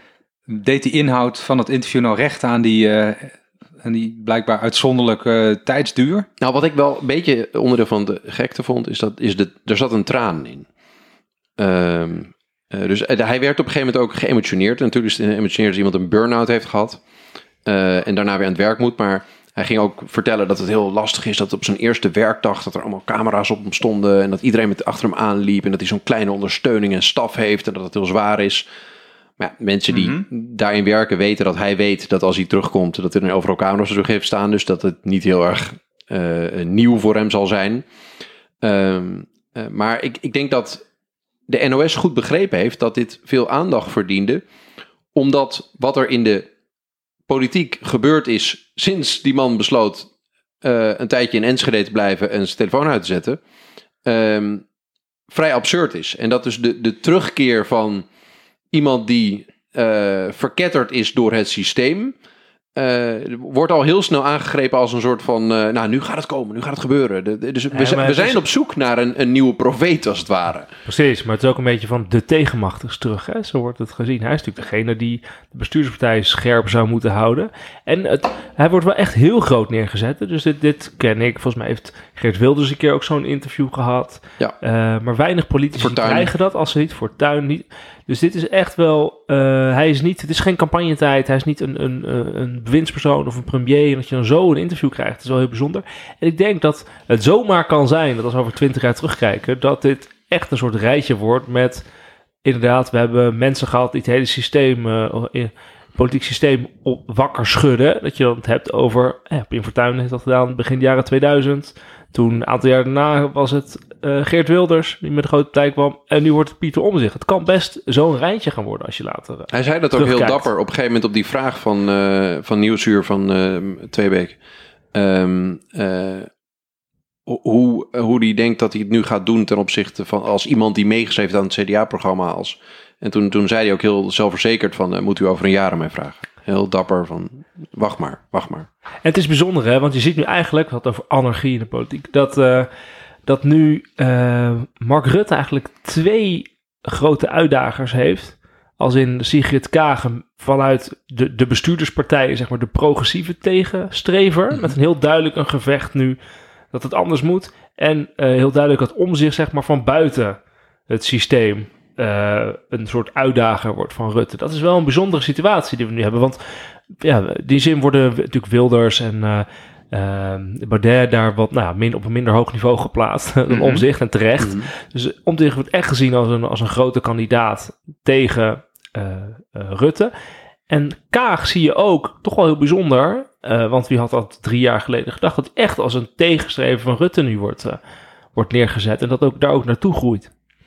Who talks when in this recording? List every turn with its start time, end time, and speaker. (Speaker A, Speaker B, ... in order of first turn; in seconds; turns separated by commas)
Speaker A: 0.5-6.3, Speaker B: 6.4-10.7, Speaker B: 11.6-17.0, Speaker B: 17.6-28.6, Speaker B: 29.4-37.8, Speaker A: 29.9-30.2, Speaker B: 38.6-40.8, Speaker B: 41.5-44.4, Speaker B: 45.1-46.5, Speaker B: 47.3-50.1, Speaker B: 50.6-53.4, Speaker B: 54.0-54.6, Speaker B: 55.3-58.0, Speaker B: 58.7-62.1, Speaker B: 62.7-70.7, Speaker C: 67.7-68.4, Speaker C: 70.8-101.8, Speaker B: 85.8-86.3, Speaker C: 102.4-120.5, Speaker B: 119.5-124.4, Speaker B: 124.9-126.3, Speaker B: 127.2-138.7, Speaker C: 139.0-142.7, Speaker C: 143.2-156.2, Speaker C: 156.7-180.1, Speaker A: 173.5-173.8, Speaker B: 174.4-174.7, Speaker C: 180.7-187.8, Speaker C: 188.3-190.3